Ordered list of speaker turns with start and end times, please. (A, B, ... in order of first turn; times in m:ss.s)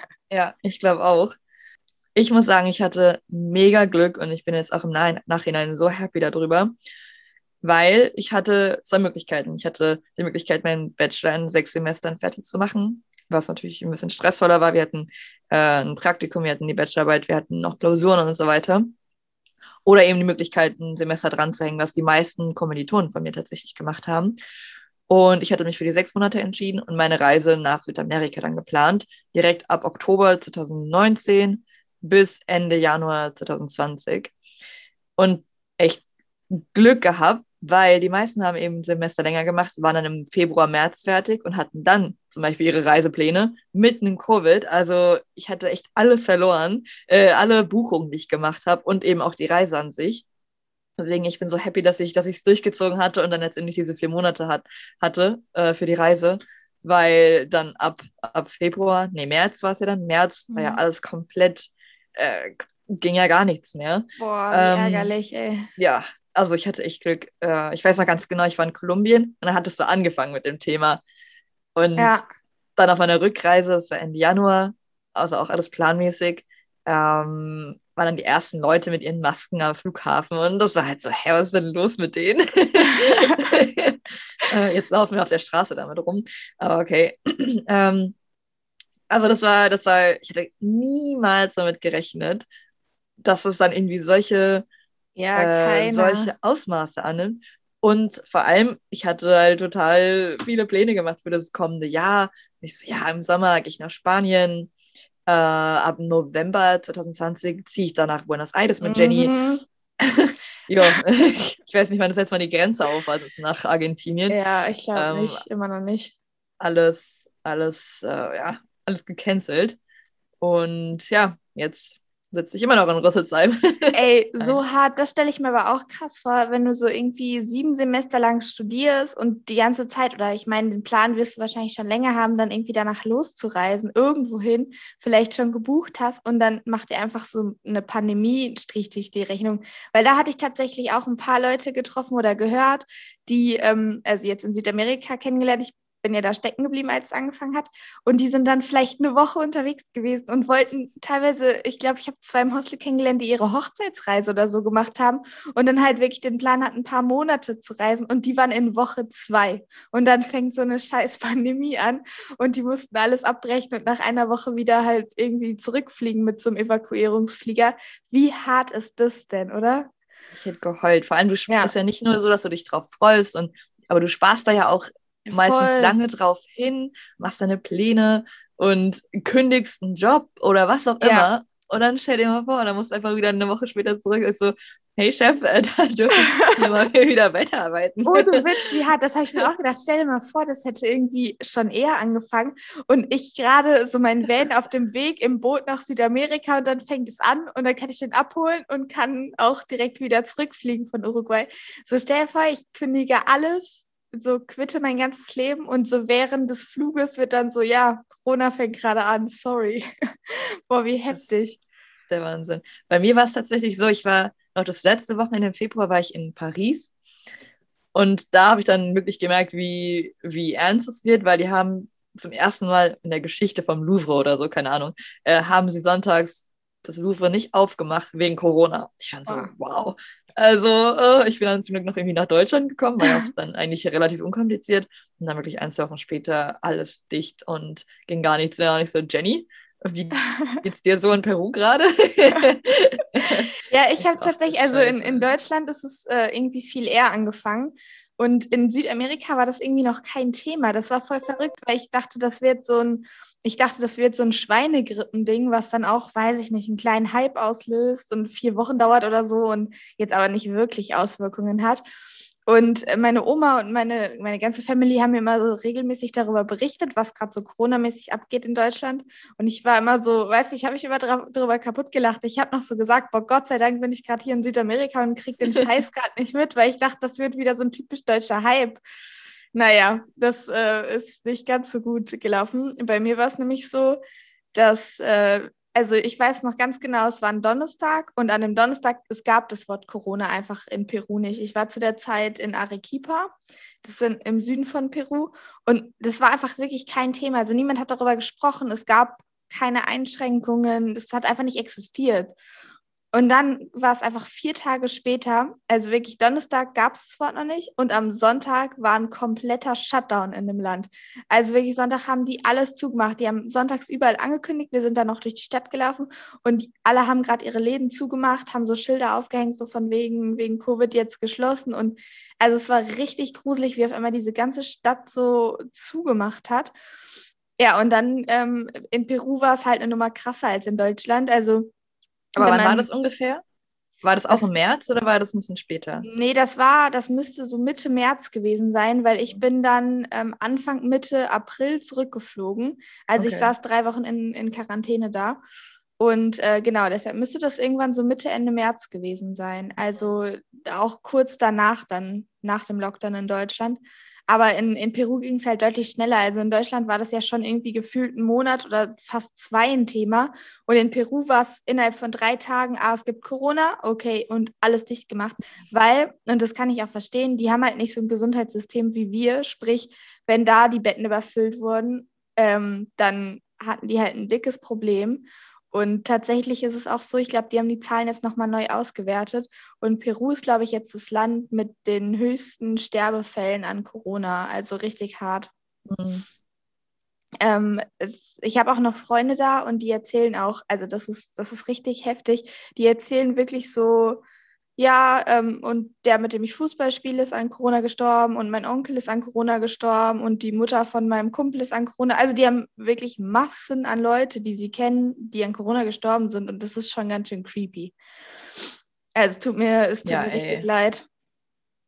0:00.3-0:01.3 A
0:02.1-0:06.7 A
0:07.6-0:18.9 A
0:19.8-0:24.4 A
0:25.1-0:34.3 A
0:35.2-0:50.2 A
0:51.0-1:05.1 A
1:00.5-1:00.8 B
1:04.2-1:05.7 B
1:05.8-1:11.0 A
1:11.8-1:12.2 A
1:12.0-1:12.2 B
1:12.8-1:28.1 A
1:29.1-1:32.4 A
1:33.2-1:34.6 A
1:35.2-1:36.3 B
1:35.3-1:44.7 A
1:45.3-1:49.3 A
1:48.8-1:49.6 B
1:50.0-1:54.4 A
1:54.3-1:56.1 B
1:54.9-1:55.4 A
1:56.6-1:59.8 A
2:00.4-2:04.6 A
2:03.9-2:49.9 B
2:50.3-3:08.4 A
2:51.5-2:51.7 B
2:55.2-2:56.0 B
3:01.0-3:01.3 B
3:08.0-3:31.6 B
3:31.1-3:31.4 A
3:32.0-3:36.9 A
3:37.9-4:05.3 A
4:00.3-4:00.6 B
4:03.2-4:21.8 B
4:22.5-4:38.8 B
4:39.5-4:44.0 B
4:44.5-5:02.3 B
5:03.1-5:26.7 B
5:27.6-5:31.7 B
5:32.3-5:32.9 B
5:32.4-5:33.4 A
5:34.0-5:36.0 A
5:36.0-5:45.4 B
5:43.2-5:43.5 A
5:46.0-6:25.5 B
6:25.9-6:26.2 A
6:27.4-6:34.2 B
6:34.8-6:48.0 B
6:49.2-6:51.0 B
6:50.0-6:50.6 A